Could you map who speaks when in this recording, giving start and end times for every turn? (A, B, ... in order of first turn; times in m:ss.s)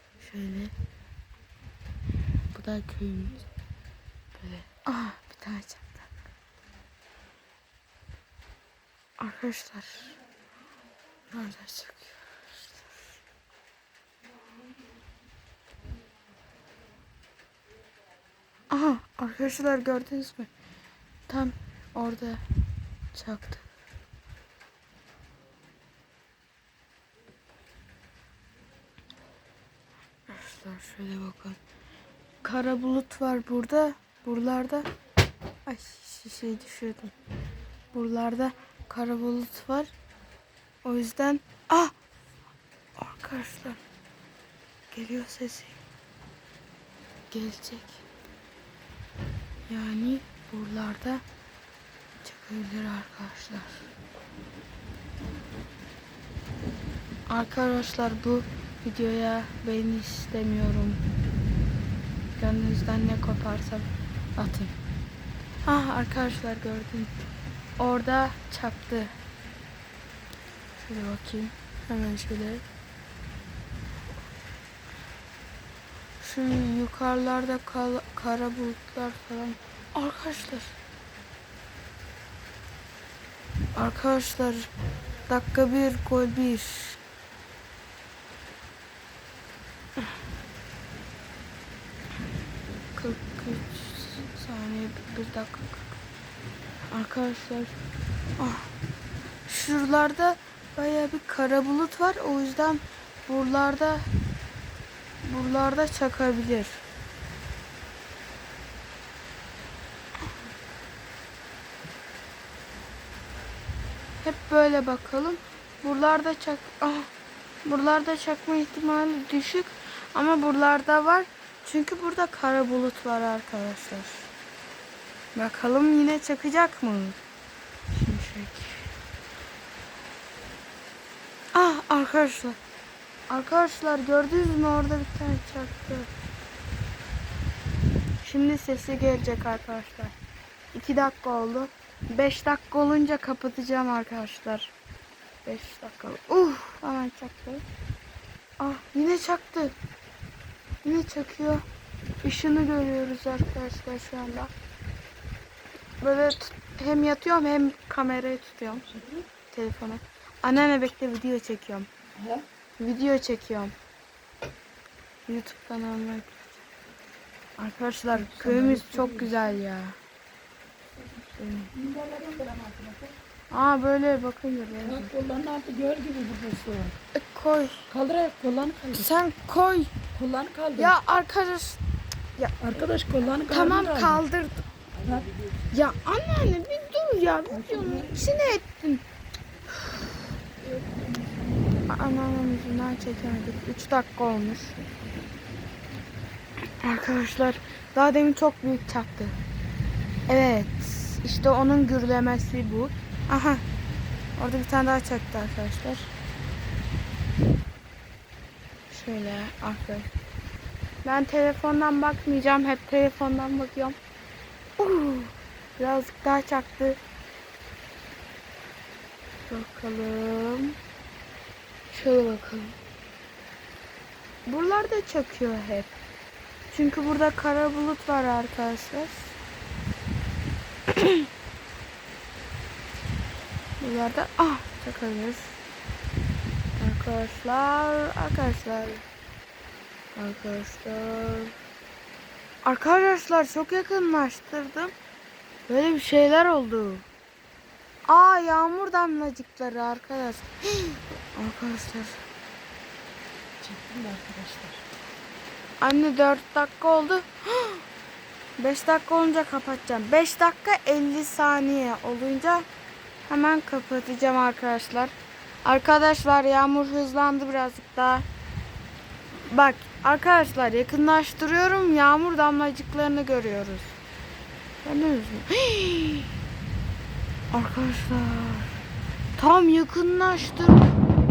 0:00.2-0:00.7 A
0:02.5-0:03.4 A
0:04.4-0:06.1 A
0:09.2-0:10.2 A
0:11.3-0:12.6 A
0:18.7-0:20.5 A
0:21.3-0:22.4 A
0:23.1-0:23.7 A
0:30.3-0:31.6 A
0:32.4-0:34.9 A
0:35.7-0:37.1 A
0:37.9-0:39.9 A
0:40.8-0:41.9 A
0:43.0-0:43.8 A
0:44.9-0:45.8 A
0:47.3-0:48.0 A
0:49.7-0:51.2 A
0:52.2-0:53.9 A
0:57.3-1:01.0 A
1:02.4-1:04.7 A
1:05.7-1:07.1 A
1:07.8-1:09.1 A
1:10.8-1:12.6 A
1:16.2-1:20.8 A
1:23.8-1:24.7 A
1:25.3-1:27.0 A
1:33.0-1:36.0 A
1:36.9-1:37.8 A
1:38.4-1:38.7 A
1:39.5-1:44.0 A
1:45.2-1:46.8 A
1:54.2-1:57.1 A
1:57.6-2:04.3 A
2:05.4-2:07.2 A
2:07.9-2:08.9 A
2:11.5-2:12.6 A
2:13.3-2:16.1 A
2:18.2-2:20.1 A
2:20.7-2:24.7 A
2:25.4-2:27.6 A
2:28.6-2:29.8 A
2:30.8-2:31.6 A
2:32.2-2:34.5 A
2:36.0-2:38.9 A
2:38.9-2:39.2 B
2:39.5-2:41.9 A
2:42.2-2:42.4 B
2:42.8-2:43.8 A
2:45.3-2:46.6 A
2:47.6-2:50.0 A
2:48.1-2:49.6 B
2:51.4-2:51.7 A
2:51.7-2:53.2 B
2:53.5-2:55.1 A
2:54.8-2:57.0 B
2:57.2-2:57.9 A
2:57.9-2:59.1 B
2:58.9-2:59.9 A
3:00.2-3:00.9 B
3:00.8-3:01.8 A
3:02.4-3:02.9 A
3:02.6-3:04.2 B
3:03.5-3:04.6 A
3:05.0-3:05.4 B
3:05.7-3:09.0 A
3:07.5-3:08.2 B
3:10.6-3:11.7 B
3:11.9-3:14.8 A
3:16.8-3:19.4 A
3:20.3-3:23.6 A
3:24.4-3:26.1 A
3:28.9-3:30.1 A
3:31.0-3:34.0 A
3:34.8-3:37.0 A
3:39.5-3:40.8 A
3:41.9-3:42.8 A
3:44.5-3:45.9 A
3:46.7-3:49.4 A
3:50.9-3:51.2 A
3:53.8-3:55.6 A
3:56.8-3:59.0 A
4:00.2-4:01.5 A
4:02.6-4:04.9 A
4:05.7-4:07.1 A
4:08.1-4:12.2 A
4:13.6-4:14.8 B
4:15.8-4:17.8 A
4:18.6-4:22.7 A
4:23.3-4:28.3 A
4:29.5-4:34.0 A
4:34.8-4:36.3 A
4:37.5-4:38.8 A
4:39.4-4:40.9 A